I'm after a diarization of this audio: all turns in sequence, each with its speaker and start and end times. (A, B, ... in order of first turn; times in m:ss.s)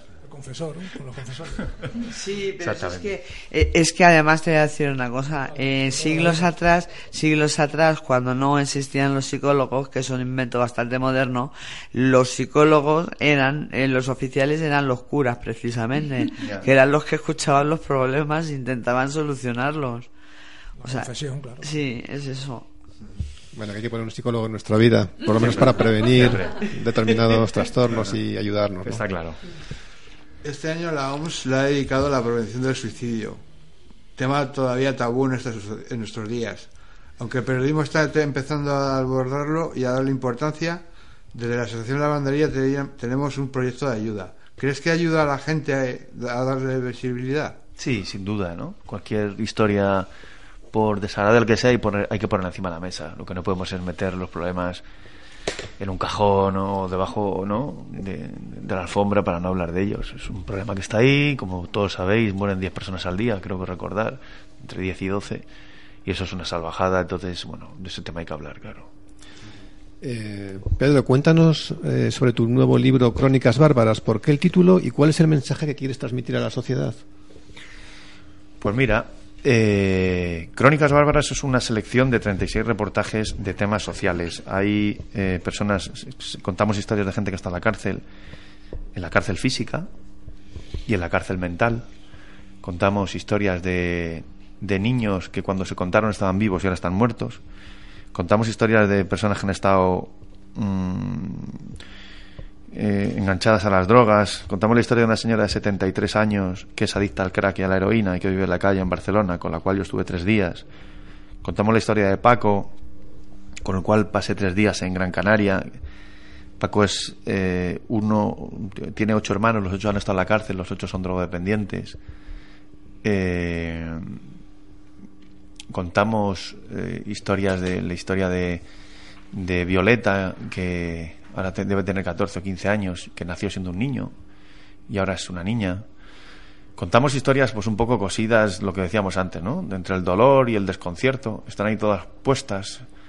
0:00.2-0:01.8 A
0:02.0-0:20.1 B
0:02.6-0:03.1 C
0:06.0-0:06.3 A
0:16.4-0:16.7 C
0:20.8-0:21.7 A
0:20.8-0:21.1 B
0:21.6-0:22.7 B
0:23.5-0:29.0 D
0:25.3-0:26.6 C
0:28.8-0:29.4 C
0:30.4-0:33.4 E
0:34.2-0:47.6 E
0:47.8-0:50.1 C
0:50.7-0:54.8 C
0:55.8-1:05.4 C
1:06.0-1:08.9 C
1:10.0-1:17.0 D
1:18.6-1:28.0 C
1:28.9-1:29.9 C
1:30.9-1:31.8 C
1:32.6-1:37.4 C
1:38.1-1:41.7 C
1:42.7-1:50.6 C
1:51.4-1:52.7 C
1:53.6-1:55.7 C
1:56.6-2:02.0 C
2:03.0-2:04.2 C
2:05.7-2:08.6 C
2:09.3-2:14.1 C
2:14.9-2:15.8 C
2:16.8-2:22.9 C